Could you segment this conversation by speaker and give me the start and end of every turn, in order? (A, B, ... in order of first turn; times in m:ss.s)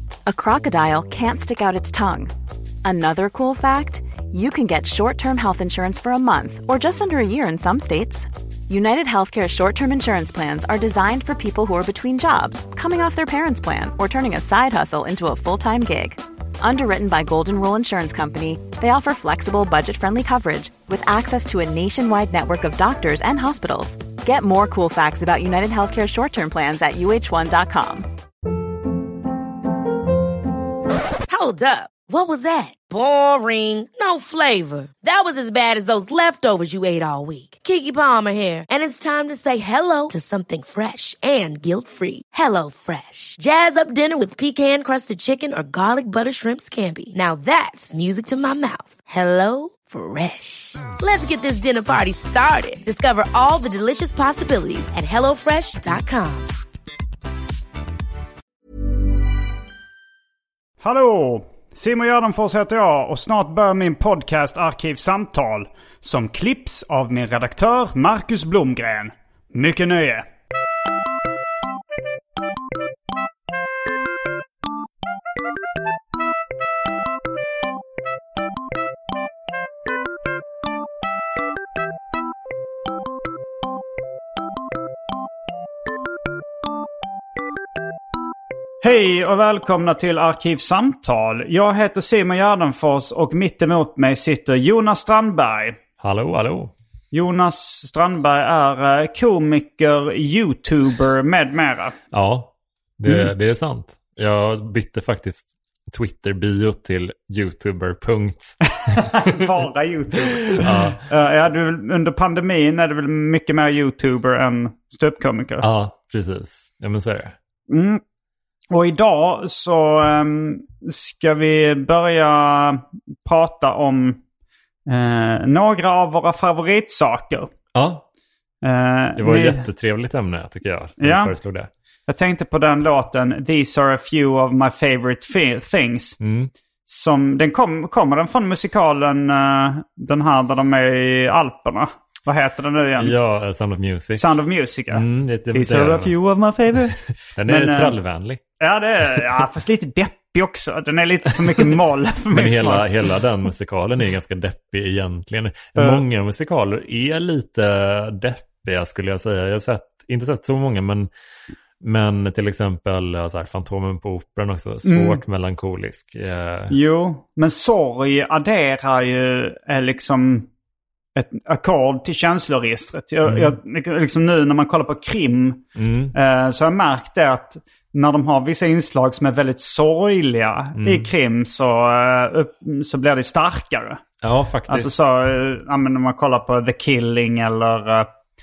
0:00.3-0:02.3 A
0:02.8-0:28.0 A
0:31.3-0:56.5 B
1:00.8-1:10.2 C
1:28.8-1:35.8 C
1:36.0-1:36.7 D
1:37.1-1:42.0 C
1:42.1-1:48.6 D
1:48.8-1:55.6 C
1:49.2-1:49.5 D
1:50.5-1:51.0 D
1:55.6-1:57.3 D
1:57.7-1:58.0 C
1:58.7-2:04.2 C
2:04.9-2:07.5 C
2:07.7-2:08.0 D
2:08.6-2:09.6 C
2:09.2-2:11.7 D
2:11.0-2:11.3 C
2:12.1-2:16.2 C
2:16.2-2:16.5 D
2:16.9-2:23.1 C
2:23.0-2:24.2 D
2:24.1-2:28.0 C
2:24.9-2:26.1 D
2:27.4-2:28.4 D
2:28.6-2:32.9 C
2:32.3-2:41.1 D
2:35.8-2:36.0 C
2:41.8-2:46.7 D
2:44.8-2:45.2 C
2:46.7-2:50.5 C
2:51.2-2:55.6 C
2:53.2-2:53.5 D
2:55.7-2:56.1 D
2:56.1-3:04.0 C
3:00.8-3:01.1 D
3:04.2-3:05.0 D
3:04.7-3:08.1 C